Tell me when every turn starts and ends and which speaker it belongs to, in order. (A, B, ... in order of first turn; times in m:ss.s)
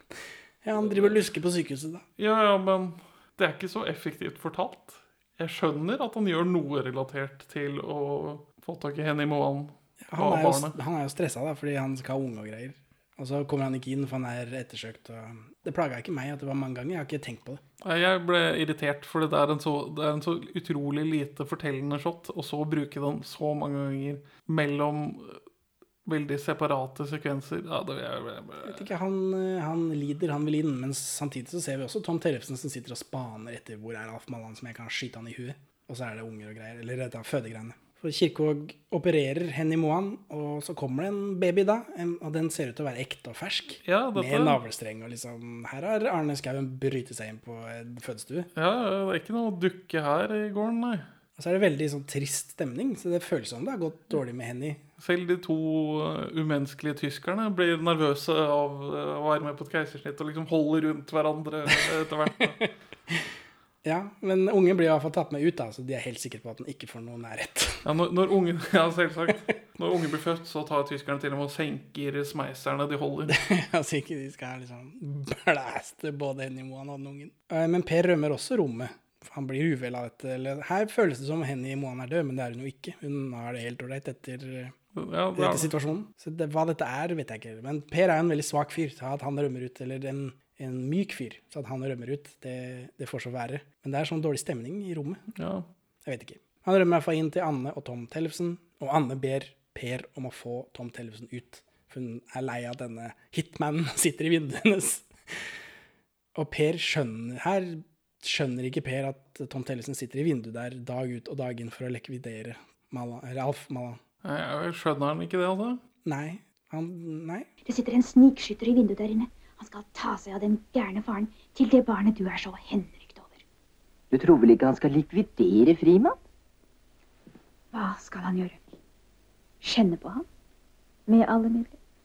0:00.6-0:02.0 A
0:00.8-0:01.1 B
0:02.2-0:10.8 B
0:10.1-0:17.6 A
0:17.8-0:25.4 B
0:26.1-0:28.9 B
0:28.6-0:48.5 A
0:43.8-0:44.6 B
0:48.6-0:51.1 B
0:51.4-0:54.8 A
0:55.0-1:02.6 B
1:02.6-1:03.2 A
1:03.8-1:07.8 A
1:07.8-1:13.4 B
1:13.3-1:24.8 A
1:25.0-1:25.7 B
1:25.4-1:35.2 A
1:35.4-1:35.7 B
1:36.0-1:45.5 A
1:46.4-1:54.0 A
1:54.2-1:55.8 B
1:56.0-1:57.5 A
1:57.6-2:03.4 C
2:04.1-2:06.2 D
2:07.7-2:08.6 C
2:09.6-2:10.2 C
2:11.1-2:11.8 C